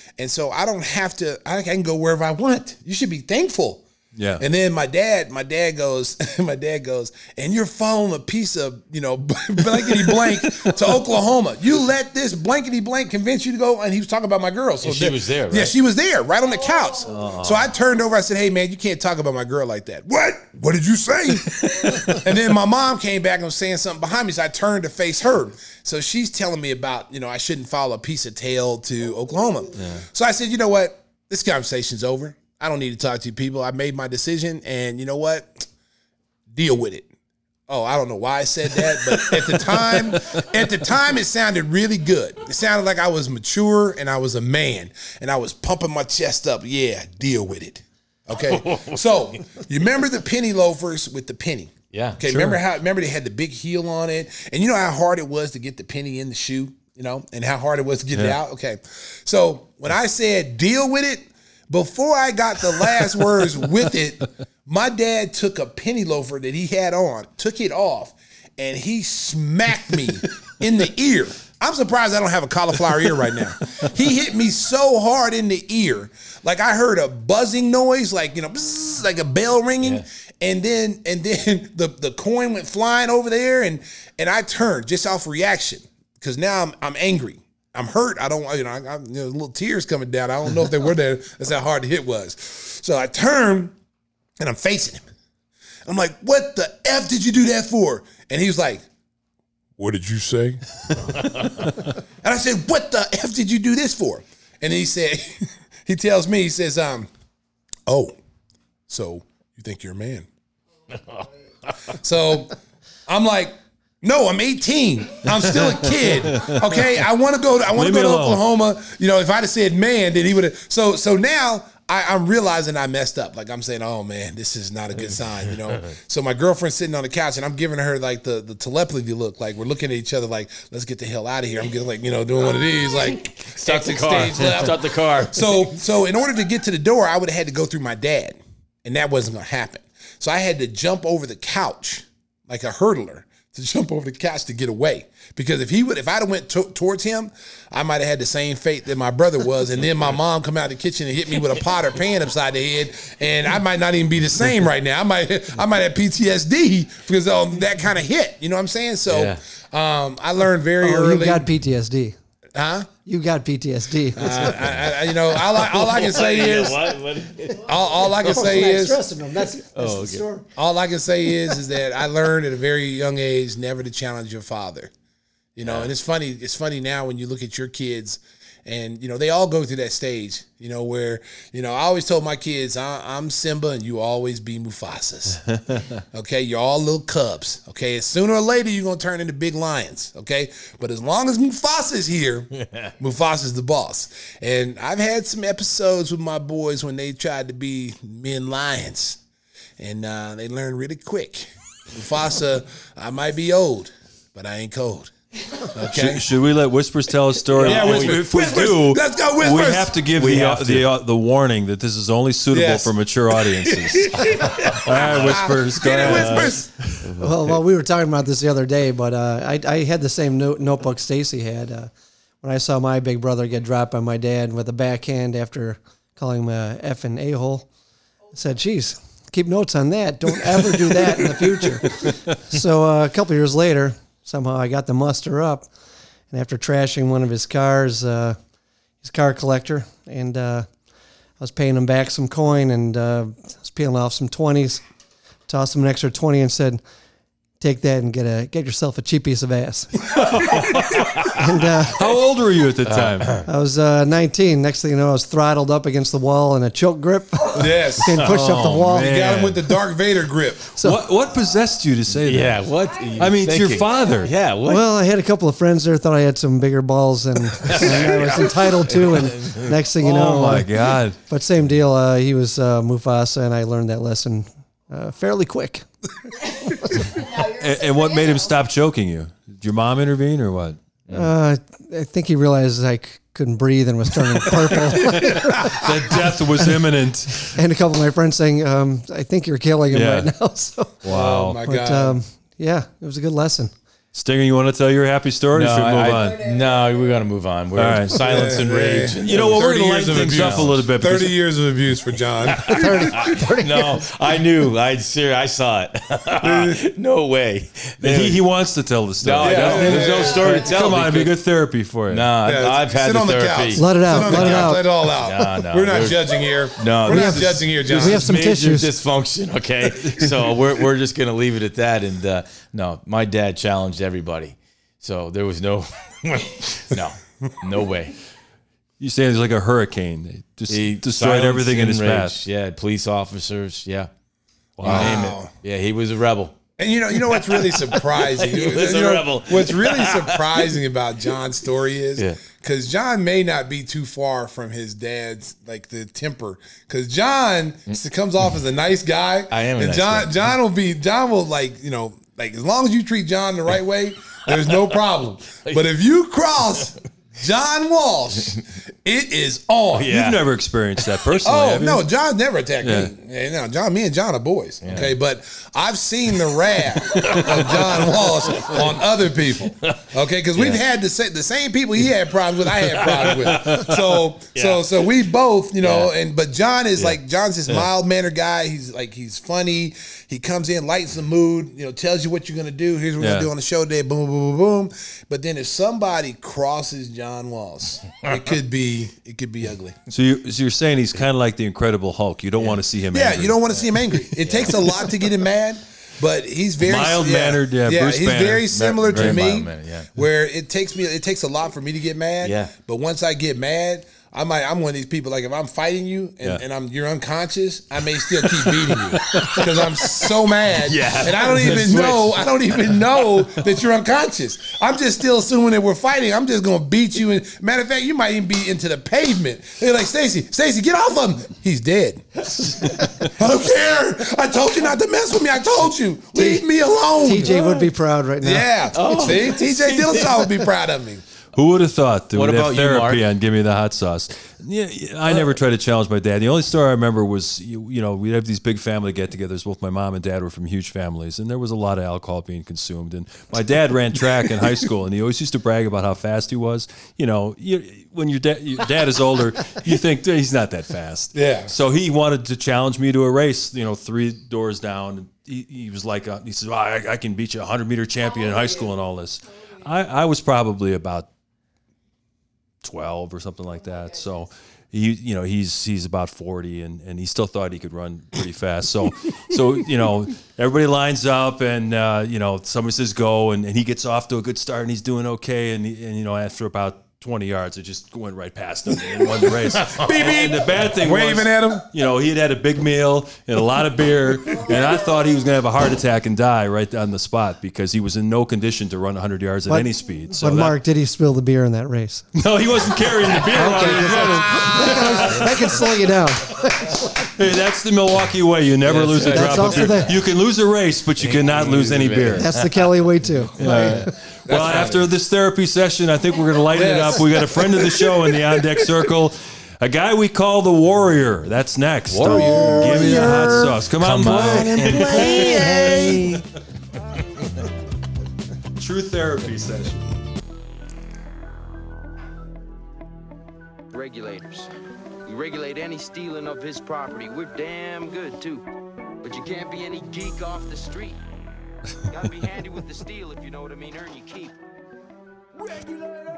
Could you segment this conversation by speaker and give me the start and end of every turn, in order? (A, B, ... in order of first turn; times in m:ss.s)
0:00.2-0:03.8 A
0:04.1-0:04.4 B
0:04.4-0:35.7 A
0:14.8-0:15.7 C
0:17.1-0:17.7 B
0:29.8-0:30.1 B
0:36.5-0:37.1 A
0:37.7-1:33.7 A
0:39.0-0:40.2 C
0:48.3-0:49.6 C
0:51.9-0:52.2 C
1:34.4-1:35.0 A
1:35.8-1:38.8 A
1:39.8-1:41.2 A
1:41.2-1:41.6 C
1:42.2-1:47.1 A
1:47.8-1:48.1 A
1:48.9-1:50.3 A
1:50.9-1:52.0 C
1:51.9-1:52.6 A
1:53.1-2:41.5 A
1:56.3-1:56.6 B
1:57.7-1:58.4 B
2:05.0-2:05.9 C
2:13.4-2:15.8 C
2:39.1-2:39.4 C
2:40.8-2:42.2 D
2:42.5-2:42.9 A
2:43.0-2:44.6 D
2:44.2-2:46.9 A
2:44.2-2:48.5 C
2:47.6-2:49.0 A
2:48.2-2:50.4 D
2:49.7-2:50.3 C
2:50.6-2:54.9 A
2:55.6-3:05.6 A
2:55.6-2:55.9 C
3:06.1-3:19.2 A
3:12.6-3:12.9 C
3:19.8-3:26.2 A
3:25.8-3:37.0 B
3:27.5-3:28.6 C
3:27.6-3:29.9 A
3:30.2-3:30.9 C
3:32.5-3:36.7 A
3:34.7-3:37.6 C
3:37.2-3:47.7 D
3:48.3-3:55.7 D
3:56.3-3:58.4 D
3:59.0-4:00.8 D
4:01.4-4:04.8 D
4:05.5-4:06.8 D
4:07.6-4:10.0 D
4:10.1-4:11.3 B
4:11.3-4:12.0 D
4:11.9-4:13.4 B
4:12.8-4:13.5 C
4:13.5-4:19.1 D
4:17.5-4:18.2 A
4:18.3-4:19.6 B
4:18.9-4:20.7 A
4:20.8-4:21.0 D
4:20.8-4:22.6 B
4:22.1-4:24.8 C
4:23.2-4:24.3 B
4:24.6-4:35.9 D
4:27.6-4:29.8 C
4:28.0-4:28.3 A
4:30.0-4:31.2 B
4:36.4-4:37.2 D
4:37.4-4:40.8 B
4:41.1-4:46.8 D
4:44.9-4:47.6 B
4:45.1-4:45.8 A
4:47.4-4:50.9 D
4:49.9-4:50.3 B
4:51.0-4:51.6 B
4:51.0-4:52.2 A
4:51.6-4:53.7 D
4:54.1-4:56.4 B
4:55.5-5:00.8 C
4:57.7-4:58.5 B
4:58.2-5:03.3 A
4:59.2-5:01.4 B
5:02.4-5:08.4 C
5:02.7-5:04.0 D
5:06.4-5:06.8 A
5:08.0-5:12.3 B
5:09.2-5:11.3 C
5:09.4-5:10.6 A
5:12.1-5:28.2 C
5:12.4-5:18.4 A
5:13.8-5:15.1 D
5:17.0-5:18.9 D
5:29.0-5:32.4 B
5:30.7-5:34.1 C
5:34.8-5:36.6 C
5:34.8-5:35.2 B
5:34.8-5:35.5 A
5:36.8-6:00.1 A
5:37.1-5:40.7 C
5:49.5-5:50.4 C
5:56.6-5:57.0 C
5:59.9-6:00.4 C
6:00.1-6:02.0 B
6:01.4-6:30.0 A
6:02.8-6:03.1 B
6:04.8-6:05.1 C
6:07.1-6:08.9 C
6:09.8-6:10.8 C
6:12.7-6:14.0 C
6:14.5-6:15.1 C
6:15.8-6:16.1 C
6:23.2-6:23.5 B
6:30.1-6:33.6 B
6:33.1-7:02.5 A
6:33.7-6:35.2 C
6:36.8-6:39.4 B
6:38.7-6:40.1 C
6:42.4-6:42.7 C
6:48.4-6:53.5 C
7:03.2-7:07.7 A
7:06.4-7:06.6 D
7:07.2-7:08.7 D
7:07.4-7:07.9 C
7:08.4-7:11.2 A
7:08.9-7:10.6 C
7:11.6-7:41.3 B
7:12.3-7:13.2 C
7:31.3-7:31.7 A
7:42.8-8:10.8 B
7:59.2-8:01.9 A
8:09.7-8:12.3 D
8:12.4-8:15.8 B
8:13.5-8:17.3 D
8:14.2-8:15.0 A
8:17.3-8:22.5 B
8:18.8-8:20.2 C
8:19.2-8:20.1 D
8:21.2-8:23.0 C
8:22.4-8:24.1 D
8:23.6-8:36.1 B
8:23.7-8:25.1 A
8:24.5-8:24.9 C
8:26.7-8:28.9 A
8:32.1-8:36.2 C
8:32.2-8:36.4 A
8:35.6-8:36.1 D
8:38.8-8:40.0 B
8:43.9-8:44.7 E
8:45.3-8:48.6 E
8:49.2-8:51.2 E
8:52.0-8:54.6 E
8:55.6-8:56.2 E